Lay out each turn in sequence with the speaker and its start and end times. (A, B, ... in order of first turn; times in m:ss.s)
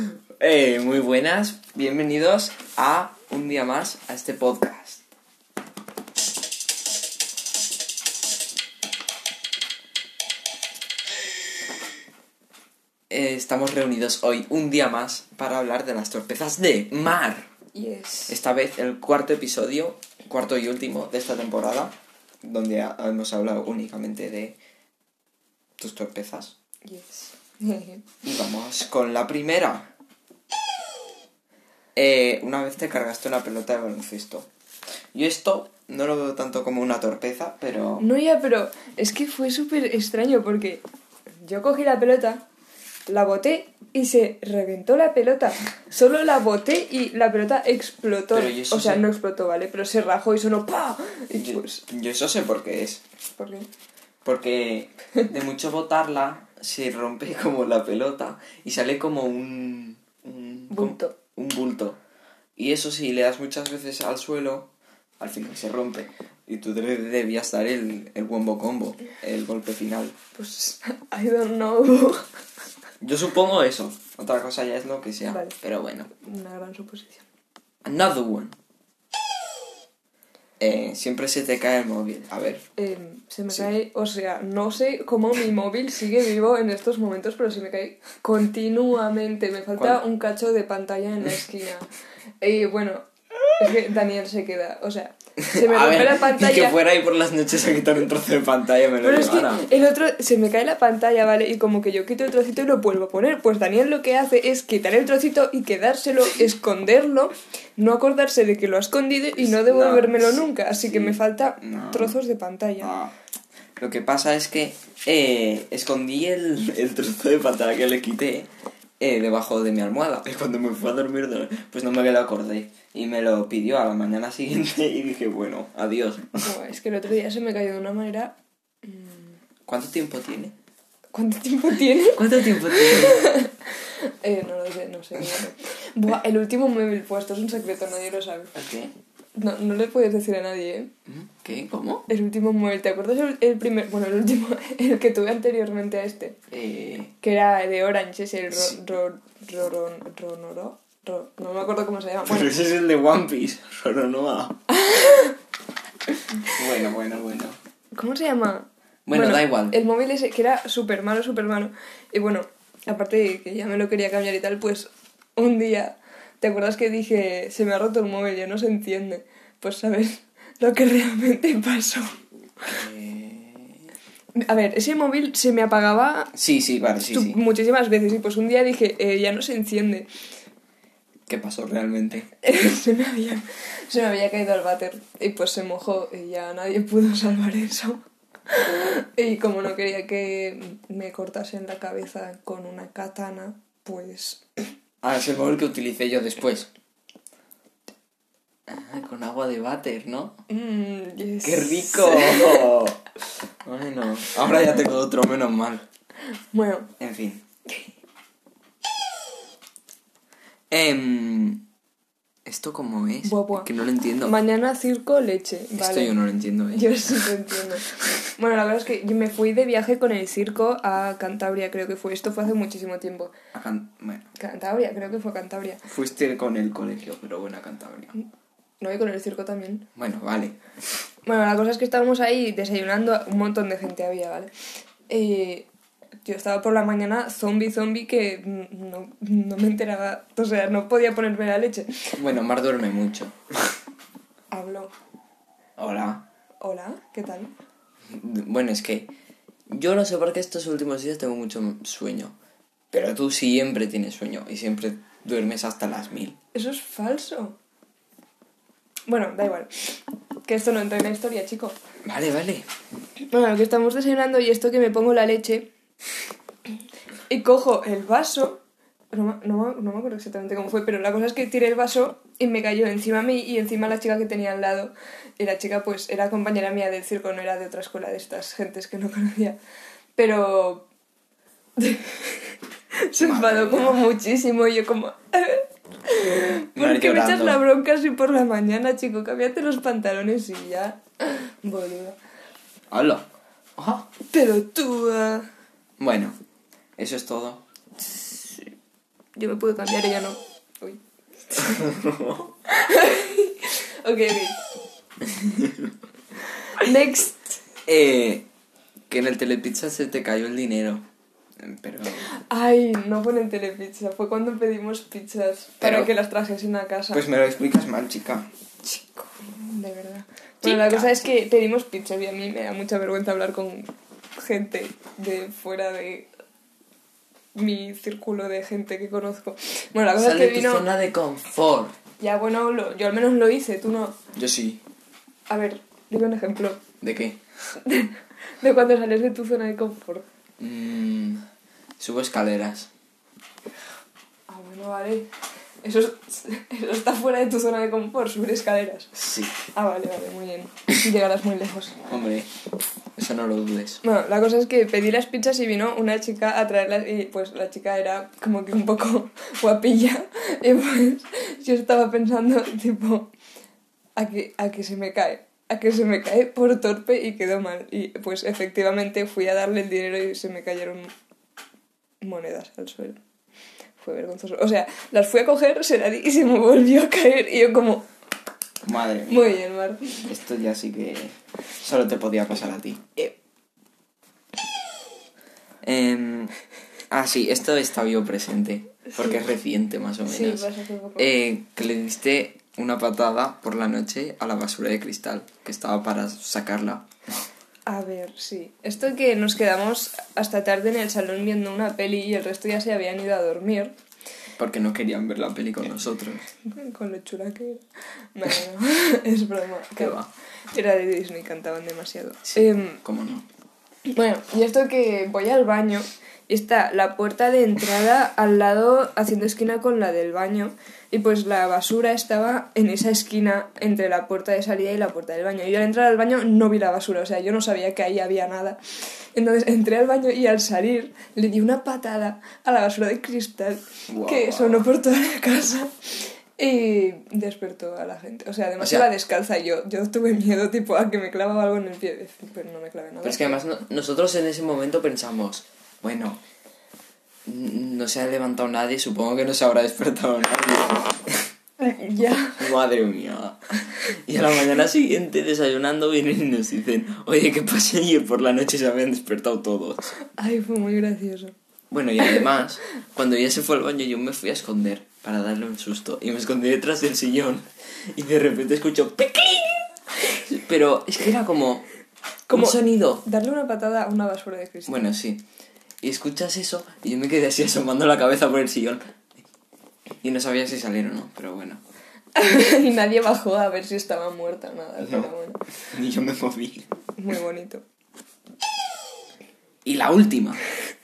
0:00.4-0:05.0 A
0:13.1-0:17.5 A
0:17.7-0:18.4 B
0:18.3-0:24.6 A
0:25.8-0:26.6 A
0:26.8-0:28.0 B
0:28.2-0:29.9 A
0:31.9-0:34.5 A
0:35.1-0:38.0 A
0:38.0-0:40.8 B
0:41.4-0:42.4 B
0:43.1-0:51.8 B
0:48.3-0:49.0 A
0:51.3-0:53.0 A
0:53.4-0:53.7 B
0:54.2-1:02.0 A
1:00.7-1:01.1 B
1:02.6-1:10.1 A
1:10.3-1:12.2 B
1:13.0-1:16.1 A
1:16.2-1:17.2 B
1:17.8-1:18.6 A
1:20.6-1:22.6 A
1:22.8-1:31.9 B
1:29.8-1:30.0 A
1:32.4-1:33.1 B
1:33.6-1:36.8 B
1:35.4-1:39.7 A
1:39.0-1:52.9 B
1:49.4-1:52.2 A
1:52.8-1:53.1 A
1:53.8-1:58.5 A
1:59.0-2:06.4 A
2:06.4-2:09.4 B
2:09.6-2:10.5 A
2:11.1-2:18.5 B
2:12.1-2:13.3 A
2:18.5-2:18.9 A
2:19.4-2:20.9 B
2:21.1-2:22.1 A
2:22.1-2:26.4 B
2:26.5-2:27.1 A
2:27.2-2:32.5 B
2:28.5-2:28.8 A
2:32.2-2:34.6 A
2:34.7-2:35.4 B
2:36.5-2:37.6 A
2:38.0-2:52.1 B
2:39.0-2:39.8 A
2:52.7-2:53.8 A
2:54.4-2:56.3 B
2:56.3-2:57.4 A
2:57.1-3:00.1 B
3:01.3-3:02.3 A
3:02.4-3:14.4 B
3:15.0-3:16.7 A
3:18.7-3:20.4 A
3:20.5-3:22.8 B
3:21.4-3:23.0 A
3:23.6-3:25.8 A
3:26.5-3:26.9 B
3:27.0-3:27.4 A
3:30.7-3:31.6 A
3:32.4-3:34.4 A
3:33.2-3:33.7 B
3:34.2-3:36.1 B
3:35.8-3:37.3 A
3:36.7-3:43.3 B
3:43.5-3:44.3 A
3:44.3-3:45.8 B
3:45.8-3:48.1 A
3:48.8-3:49.9 B
3:50.0-3:50.6 A
3:51.2-3:54.5 B
3:55.1-3:55.7 B
3:56.2-4:02.1 B
4:02.2-4:03.4 A
4:04.5-4:04.9 B
4:05.8-4:06.2 A
4:06.6-4:07.5 B
4:08.1-4:09.1 A
4:09.7-4:12.3 A
4:12.9-4:16.4 A
4:16.5-4:17.6 B
4:19.1-4:21.8 B
4:22.0-4:22.7 A
4:23.3-4:25.7 B
4:27.3-4:28.6 B
4:29.1-4:39.6 B
4:40.2-4:40.9 B
4:41.8-4:42.6 B
4:43.1-4:52.2 B
4:43.2-4:44.0 A
4:46.7-4:47.6 A
4:52.9-4:53.2 A
4:53.8-4:54.1 A
4:54.3-4:55.4 B
4:56.0-4:56.3 A
4:57.0-4:57.6 A
4:59.4-5:02.0 B
5:01.8-5:02.4 A
5:02.6-5:04.6 B
5:05.3-5:05.9 A
5:06.7-5:07.6 B
5:07.9-5:08.5 A
5:09.1-5:11.0 A
5:11.6-5:12.3 A
5:12.3-5:17.2 B
5:15.8-5:16.1 A
5:17.1-5:18.5 A
5:18.8-5:26.3 B
5:20.6-5:21.1 A
5:27.5-5:30.9 B
5:30.1-5:31.9 A
5:32.2-5:34.2 B
5:34.3-5:34.8 A
5:35.5-5:36.8 B
5:37.0-5:37.4 A
5:37.8-5:40.2 B
5:40.6-5:41.4 A
5:42.0-5:42.9 A
5:44.5-5:45.3 B
5:45.8-5:49.1 B
5:49.1-5:49.5 A
5:49.7-5:52.0 B
5:52.1-5:52.5 A
5:53.2-5:54.0 A
5:54.0-6:03.3 B
6:04.2-6:11.1 B
6:12.2-6:13.2 B
6:14.0-6:18.0 B
6:18.8-6:19.6 A
6:19.3-6:20.3 B
6:20.3-6:23.4 A
6:25.8-6:26.5 A
6:27.1-6:37.1 A
6:30.2-6:31.3 B
6:37.8-6:43.9 B
6:44.6-6:46.4 A
6:46.7-6:47.8 B
6:48.3-6:50.2 B
6:50.0-6:50.3 A
6:50.7-6:53.0 B
6:52.5-6:53.5 A
6:54.1-7:08.8 B
7:09.3-7:23.6 B
7:14.1-7:14.9 A
7:18.8-7:19.1 A
7:23.2-7:26.4 A
7:27.4-7:31.4 A
7:31.8-7:32.7 B
7:32.6-7:33.7 A
7:34.3-7:40.1 A
7:40.4-7:41.5 B
7:41.9-7:51.8 A
7:52.5-7:55.1 B
7:52.5-7:53.2 A
7:54.9-7:55.4 A
7:56.0-7:59.0 A
8:00.2-8:01.8 A
8:02.4-8:05.6 B
8:05.0-8:05.3 A
8:05.8-8:06.9 A
8:07.2-8:07.8 B
8:09.8-8:10.6 A